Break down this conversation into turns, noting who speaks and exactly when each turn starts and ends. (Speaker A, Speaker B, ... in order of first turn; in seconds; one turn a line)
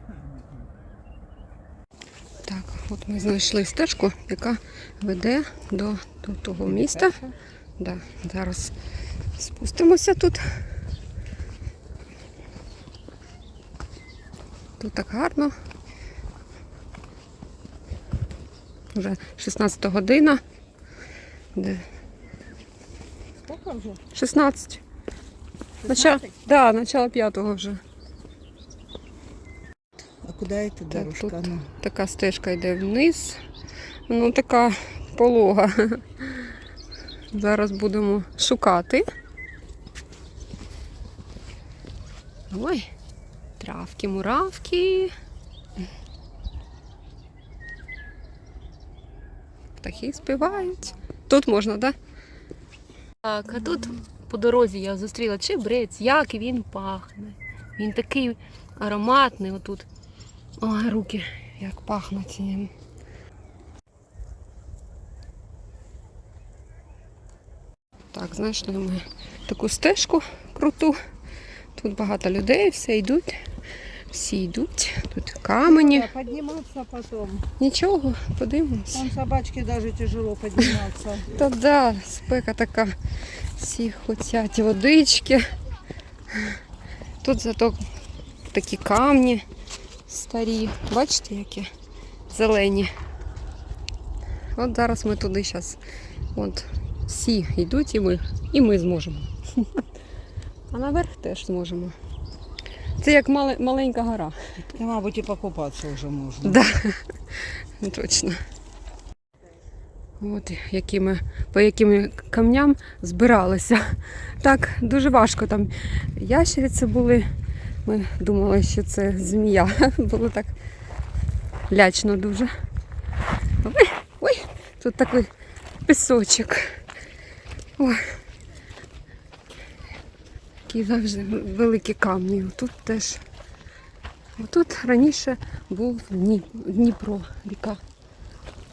Speaker A: 2.4-7.2
Speaker B: 6.8-7.3
Speaker A: 7.8-8.8
Speaker A: 9.4-10.5
Speaker A: 14.8-15.5
Speaker A: 18.9-20.4
Speaker A: 21.6-21.9
Speaker B: 23.4-24.0
Speaker A: 24.1-24.8
Speaker B: 25.8-26.3
Speaker A: 25.9-27.8
Speaker B: 30.2-31.7
Speaker A: 30.9-33.4
Speaker A: 34.1-36.5
Speaker A: 37.3-39.1
Speaker A: 42.5-42.9
Speaker A: 43.6-45.1
Speaker A: 49.8-52.0
Speaker B: 50.7-51.0
Speaker A: 53.2-59.9
Speaker A: 60.6-62.7
Speaker A: 68.1-71.0
Speaker A: 71.8-73.5
Speaker A: 74.1-76.1
Speaker B: 75.6-77.5
Speaker A: 77.6-79.1
Speaker B: 78.9-81.4
Speaker A: 81.3-83.0
Speaker A: 83.6-85.5
Speaker A: 87.2-87.8
Speaker A: 88.5-89.5
Speaker A: 90.1-91.7
Speaker A: 92.3-92.9
Speaker A: 94.6-95.8
Speaker A: 96.3-99.8
Speaker A: 100.7-102.0
Speaker A: 103.0-104.4
Speaker B: 104.7-106.6
Speaker A: 106.4-108.4
Speaker A: 110.2-117.3
Speaker A: 117.8-120.5
Speaker A: 121.7-122.5
Speaker A: 123.6-125.3
Speaker A: 125.9-126.8
Speaker A: 127.8-128.2
Speaker A: 130.7-133.2
Speaker A: 134.4-137.8